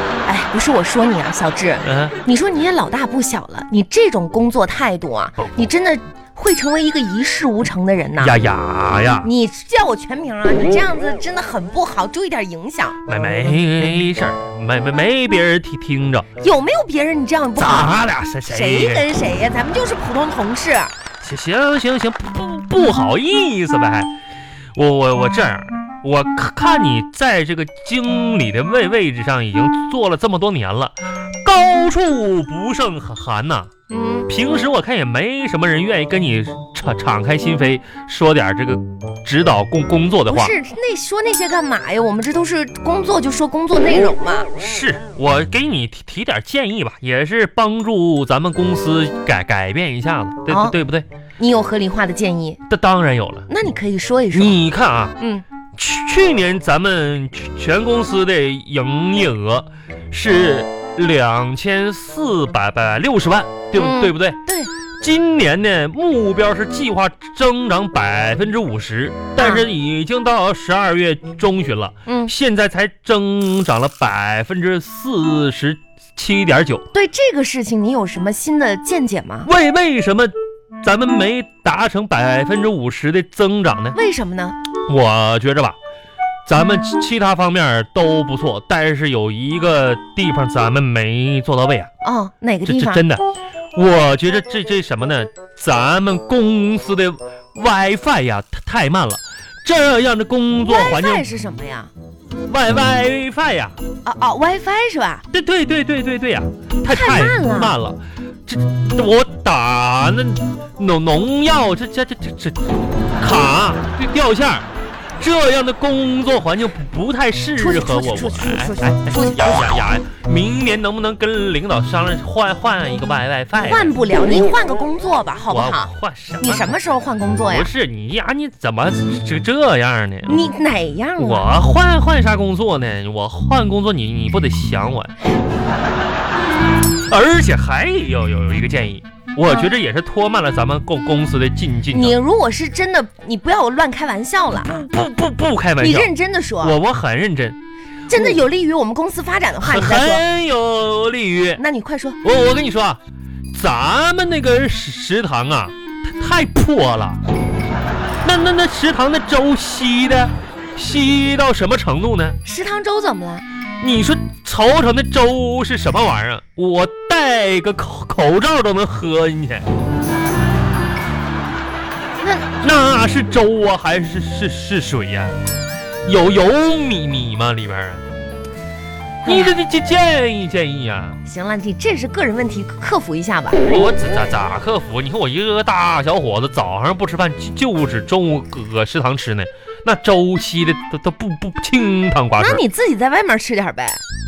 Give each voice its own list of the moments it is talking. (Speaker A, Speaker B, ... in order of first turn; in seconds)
Speaker A: 0.2-8.4, 9.2-13.0, 16.4-20.9, 33.9-34.3, 40.3-44.5, 50.5-50.8, 51.4-52.6, 53.5-54.6, 55.2-55.4, 63.7-64.7, 69.4-69.7, 72.0-72.3, 76.9-79.5, 83.9-84.6, 92.0-93.0, 100.6-101.9, 104.0-105.2, 106.8-107.8, 117.6-119.6, 123.6-127.7, 130.2-131.5, 141.9-144.9, 145.8-146.8, 148.1-150.2, 151.6-152.2, 162.4-163.4, 172.2-172.5, 179.2-179.5, 181.2-183.6, 192.4-194.0
Speaker B: 1.8-2.2, 8.2-9.3, 13.1-16.3, 17.6-19.1, 21.2-24.1, 24.7-33.7, 34.3-40.5, 44.5-51.0, 52.7-53.5, 54.3-55.2, 55.7-64.4, 65.0-76.8, 79.4-84.0, 84.9-85.8, 86.5-91.9, 92.7-101.2, 102.5-103.8, 105.3-112.7, 113.2-114.7, 115.2-123.9, 125.5-126.8, 127.5-130.4, 131.2-135.1, 136.8-142.2, 144.6-147.6, 148.1-148.4, 149.6-151.6, 152.2-153.0, 153.5-157.2, 158.2-162.4, 163.8-169.7, 172.6-175.4, 176.0-178.0, 179.2-181.2, 183.6-192.6